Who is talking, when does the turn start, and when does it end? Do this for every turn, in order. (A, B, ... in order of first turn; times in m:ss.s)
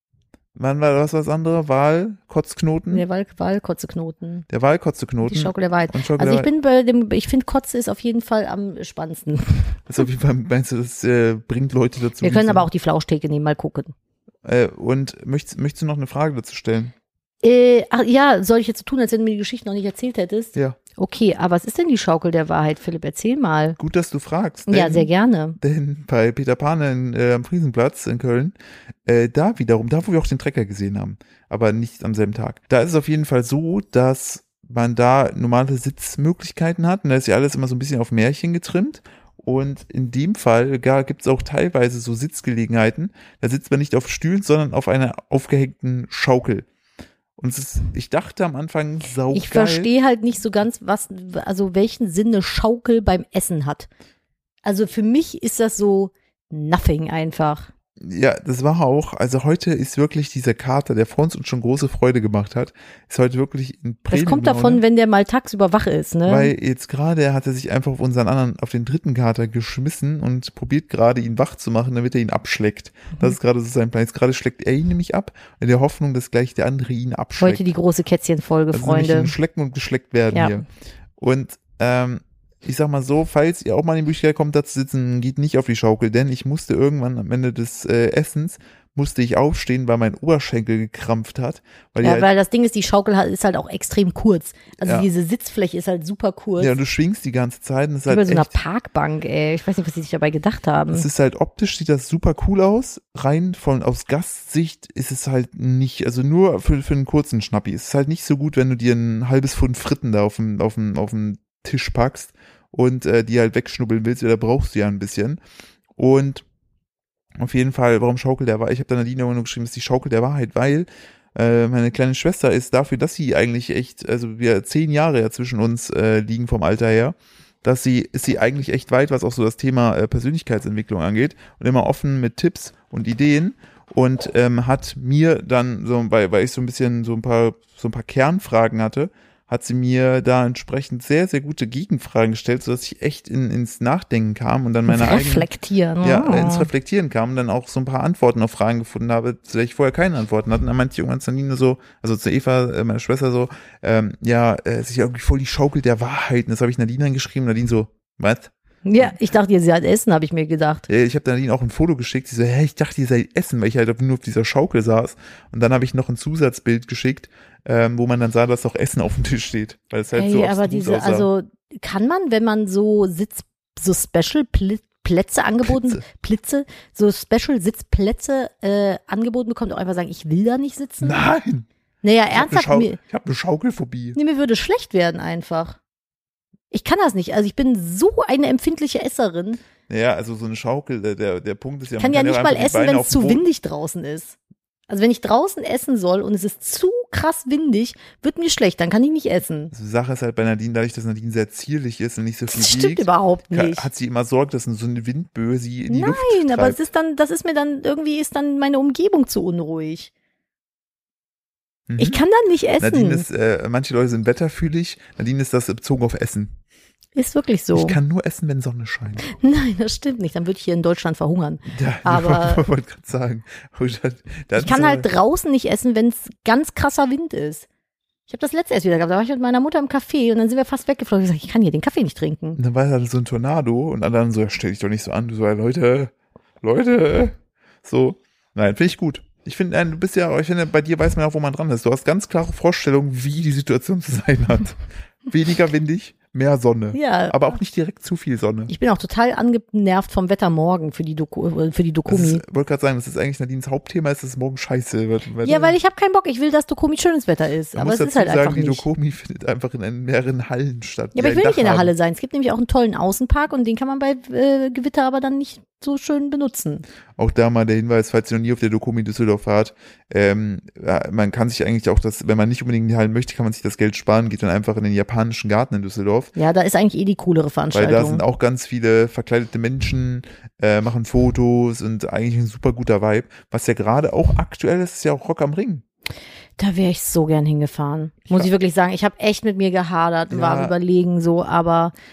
0:00.6-0:03.0 A
0:02.9-0:04.5 B
0:04.5-0:06.5 A
0:05.3-0:09.8 B
0:09.9-0:12.7 A
0:12.2-0:13.9 B
0:14.4-0:16.9 A
0:17.4-0:23.8 B
0:23.8-0:28.5 A
0:24.7-0:25.6 B
0:29.0-0:46.7 A
0:47.4-0:49.9 A
0:49.3-0:53.9 B
0:54.6-0:57.7 B
0:58.0-1:04.8 A
1:04.1-1:06.5 B
1:06.3-1:17.7 A
1:17.4-1:19.3 B
1:18.7-1:20.7 A
1:21.2-1:32.3 A
1:32.0-1:36.7 B
1:34.8-1:35.1 A
1:36.6-1:38.6 A
1:38.1-1:41.1 B
1:40.9-1:55.4 A
1:56.0-1:56.4 A
1:57.4-2:25.5 A
2:24.9-2:26.7 B
2:26.0-2:39.2 A
2:38.8-2:40.9 B
2:40.9-2:51.3 A
2:50.1-3:01.2 B
2:55.6-2:56.0 A
3:01.0-3:01.7 A
3:02.0-3:03.0 B
3:02.3-3:04.2 A
3:04.2-3:05.8 B
3:06.7-3:09.6 B
3:09.9-3:13.4 A
3:12.0-3:14.4 B
3:14.9-3:19.7 B
3:19.7-3:26.8 A
3:22.5-3:23.9 B
3:25.9-3:30.1 B
3:31.9-3:32.2 A
3:32.0-3:33.3 B
3:32.8-3:36.5 A
3:37.1-3:38.0 B
3:37.7-3:39.2 A
3:39.2-3:42.6 B
3:41.7-3:45.1 A
3:44.6-3:47.6 B
3:48.3-3:52.6 B
3:52.6-4:04.8 A
4:05.3-4:08.7 A
4:06.9-4:07.5 B
4:08.7-4:12.4 B
4:12.1-4:15.8 A
4:15.4-4:18.9 B
4:17.7-4:21.9 A
4:21.1-4:26.8 B
4:27.2-4:36.3 A
4:36.3-4:38.2 B
4:37.7-4:45.8 A
4:46.6-4:51.9 B
4:50.3-4:50.7 A